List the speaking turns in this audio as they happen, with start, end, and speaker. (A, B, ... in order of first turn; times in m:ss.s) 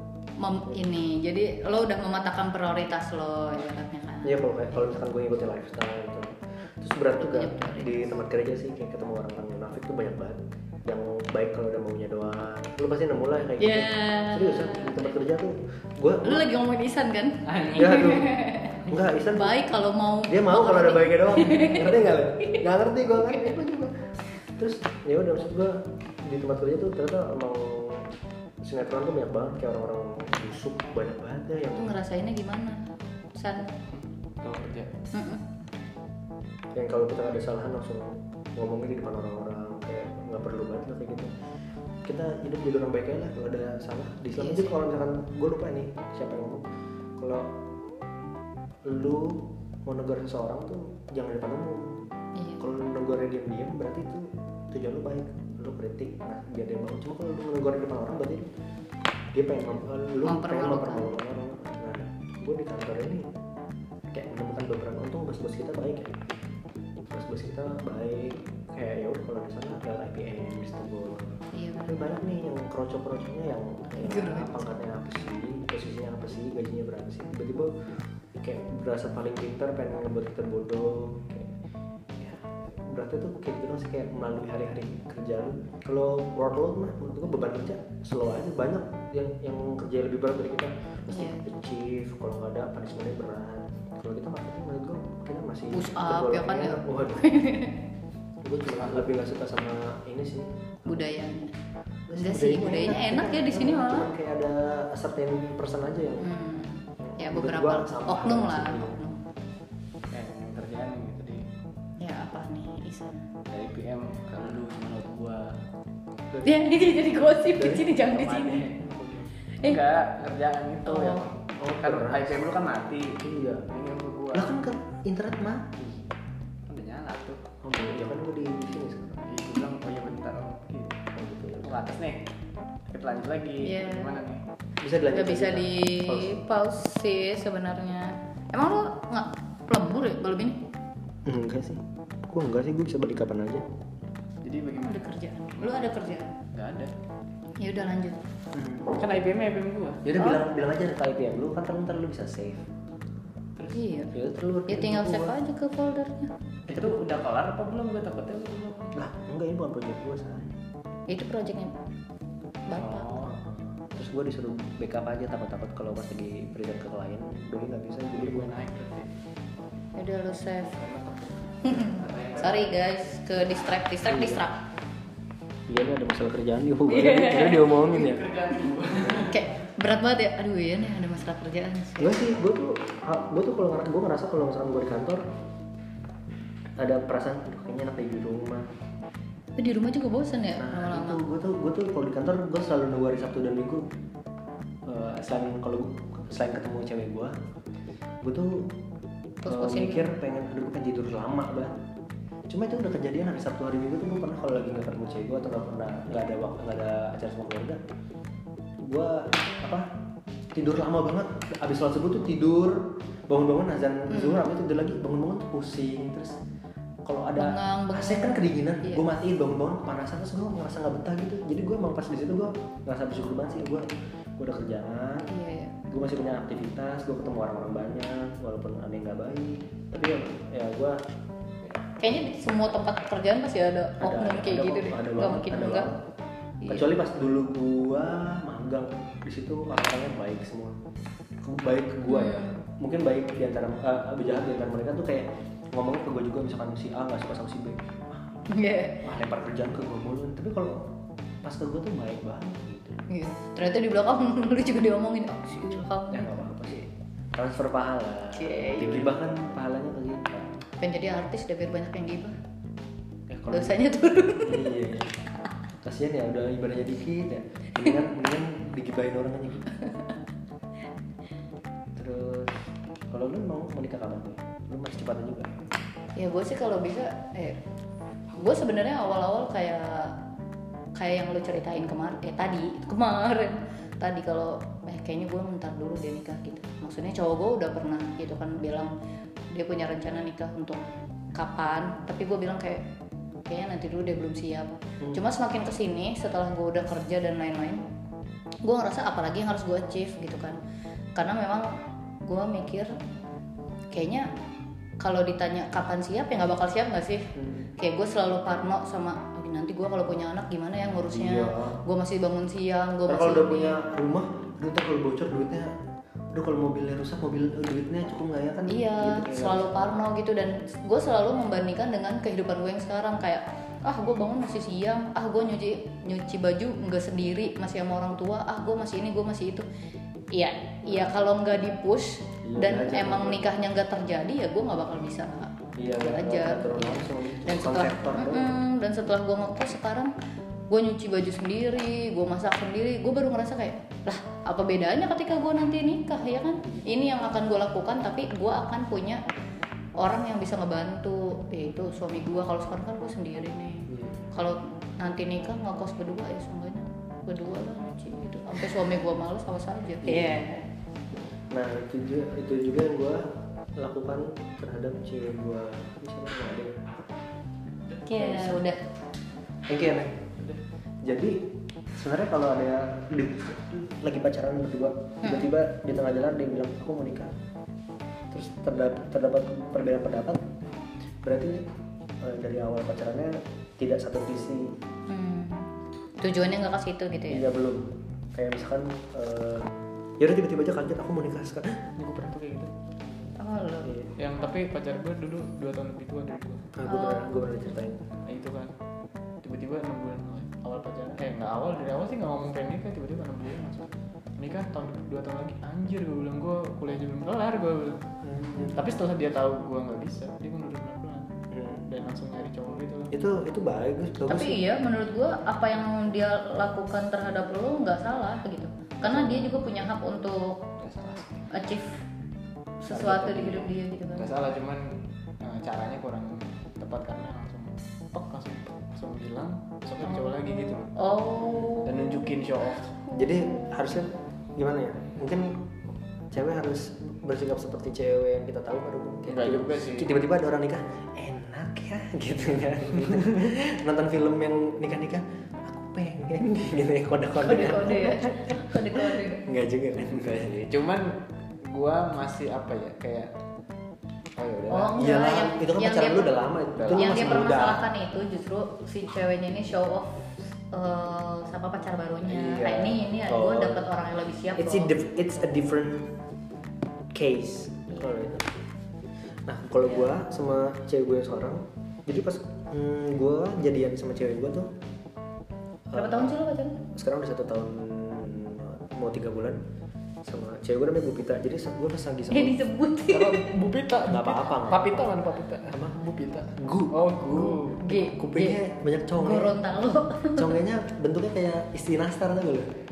0:00.4-0:04.4 A
0:04.2-0:16.5 B
0:07.2-0:08.1 A
0:13.6-0:15.1 A
0:16.2-0:22.6 A
0:17.4-0:18.2 C
0:17.7-0:19.6 B
0:20.3-0:24.0 B
0:23.2-0:23.5 A
0:24.5-0:28.0 B
0:28.6-0:32.0 B
0:31.7-0:32.8 A
0:33.4-0:33.7 A
0:33.9-0:34.9 C
0:35.1-0:35.4 A
0:36.7-0:41.3 B
0:42.0-0:46.7 B
0:44.4-0:44.8 A
0:47.2-0:47.6 B
0:48.8-0:52.0 B
0:52.4-0:52.6 A
0:52.6-0:58.5 B
0:59.3-1:03.3 B
1:00.2-1:01.1 A
1:04.1-1:06.2 B
1:07.0-1:17.8 B
1:11.5-1:12.1 A
1:14.0-1:14.7 A
1:18.3-1:21.5 B
1:22.2-1:37.3 B
1:31.1-1:31.4 A
1:35.7-1:37.8 A
1:38.4-1:41.0 B
1:38.8-1:39.1 C
1:40.8-1:41.5 A
1:42.1-1:46.3 B
1:42.2-1:44.1 A
1:46.2-1:49.2 A
1:47.0-1:49.0 B
1:50.1-1:51.4 C
1:52.0-1:53.3 A
1:53.5-1:55.5 C
1:56.4-1:58.7 A
1:57.5-1:57.9 B
1:58.0-2:04.5 C
2:00.8-2:01.2 A
2:01.6-2:02.4 B
2:03.2-2:03.7 B
2:04.3-2:06.1 B
2:06.7-2:07.4 C
2:07.6-2:09.2 B
2:09.2-2:11.0 C
2:11.1-2:11.8 B
2:11.6-2:12.2 C
2:12.9-2:14.4 C
2:13.6-2:14.2 A
2:14.8-2:16.3 B
2:15.1-2:20.6 A
2:21.2-2:23.6 B
2:24.4-2:25.0 C
2:24.8-2:26.3 A
2:25.6-2:25.9 C
2:26.5-2:26.9 C
2:27.6-2:28.2 A
2:28.5-2:29.0 B
2:28.9-2:30.0 C
2:30.0-2:32.7 B
2:33.7-2:34.1 A
2:34.1-2:35.3 B
2:34.7-2:36.3 A
2:36.7-2:39.0 C
2:36.7-2:37.0 B
2:38.9-2:40.5 B
2:41.1-2:41.7 A
2:42.7-2:43.2 A
2:42.7-2:43.3 C
2:43.2-2:48.5 B
2:48.1-2:49.1 C
2:49.9-2:50.8 A
2:50.7-2:52.7 C
2:51.6-2:54.6 A
2:54.1-2:54.4 B
2:55.7-2:58.2 B
2:56.9-2:57.7 A
2:57.8-2:59.4 C
2:59.2-3:02.2 A
3:02.0-3:05.2 B
3:06.8-3:08.7 B
3:09.6-3:11.2 A
3:10.5-3:13.8 B
3:14.8-3:17.3 B
3:18.2-3:18.7 B
3:19.4-3:20.2 A
3:19.4-3:21.7 B
3:22.5-3:27.8 B
3:28.8-3:29.9 B
3:30.5-3:36.4 B
3:34.1-3:34.4 A
3:37.0-3:45.3 B
3:37.4-3:39.0 A
3:45.3-3:45.8 A
3:45.9-3:51.0 B
3:52.0-3:55.9 A
3:54.0-3:56.0 B
3:56.7-4:00.8 B
4:01.4-4:08.4 B
4:02.1-4:02.6 A
4:08.5-4:09.0 A
4:09.0-4:13.0 B
4:13.1-4:16.3 A
4:15.6-4:20.5 B
4:18.3-4:19.1 A
4:20.8-4:22.3 A
4:23.3-4:23.8 B
4:23.5-4:24.7 A
4:24.4-4:25.1 B
4:25.8-4:29.7 B
4:31.9-4:32.6 B
4:33.1-4:35.5 B
4:36.2-4:37.6 A
4:38.3-4:40.2 A
4:41.0-4:48.9 A
4:49.5-4:50.8 A
4:51.3-4:52.9 A
4:53.4-4:57.8 A
4:58.6-5:00.6 A
5:01.2-5:02.9 A
5:03.9-5:04.3 A
5:05.0-5:13.8 A
5:07.4-5:07.7 B
5:11.1-5:11.8 B
5:13.1-5:15.7 B
5:16.3-5:19.9 B
5:18.7-5:29.6 A
5:30.3-5:40.1 A
5:32.4-5:33.5 B
5:35.8-5:38.5 B
5:40.7-5:49.2 A
5:50.0-6:00.6 A
5:53.9-5:54.2 B
6:00.0-6:00.4 B
6:01.5-6:03.2 B
6:03.8-6:06.8 B
6:08.0-6:08.8 A
6:08.1-6:08.6 B
6:09.7-6:10.2 B
6:11.0-6:17.3 B
6:15.2-6:15.5 A
6:18.3-6:20.4 B
6:21.2-6:21.6 B
6:22.2-6:24.7 B
6:25.1-6:25.7 A
6:26.2-6:27.4 A
6:27.3-6:31.9 B
6:32.0-6:32.7 C
6:33.4-6:33.9 A
6:33.8-6:34.1 B
6:34.2-6:36.7 C
6:36.7-6:38.1 B
6:36.8-6:37.3 A
6:38.2-6:38.7 C
6:39.4-6:48.0 C
6:48.2-6:48.8 B
6:48.6-6:51.3 C
6:51.5-6:51.8 B
6:51.9-6:53.1 C
6:53.1-6:54.6 B
6:54.3-7:00.7 A
6:59.0-6:59.5 B
7:00.8-7:01.5 C
7:01.5-7:01.9 A
7:02.8-7:04.3 A
7:02.9-7:03.6 C
7:04.2-7:13.0 C
7:10.0-7:12.4 A
7:12.9-7:13.8 A
7:13.1-7:15.6 B
7:16.3-7:30.6 B
7:19.2-7:20.1 C
7:27.4-7:29.4 A
7:30.4-7:33.3 C
7:34.4-7:35.0 C
7:34.7-7:36.4 A
7:35.0-7:37.8 B
7:36.8-7:37.5 C
7:36.9-7:44.9 A
7:42.2-7:43.8 B
7:44.6-7:46.1 B
7:47.1-7:48.5 B
7:49.4-7:54.7 B
7:49.8-7:50.1 A
7:55.9-7:56.4 B
7:55.9-7:56.8 A
7:56.9-7:59.6 B
8:00.2-8:02.6 B
8:02.3-8:03.5 A
8:03.1-8:07.8 C
8:04.1-8:05.1 B
8:05.7-8:12.7 B
8:07.3-8:08.6 A
8:09.2-8:10.6 A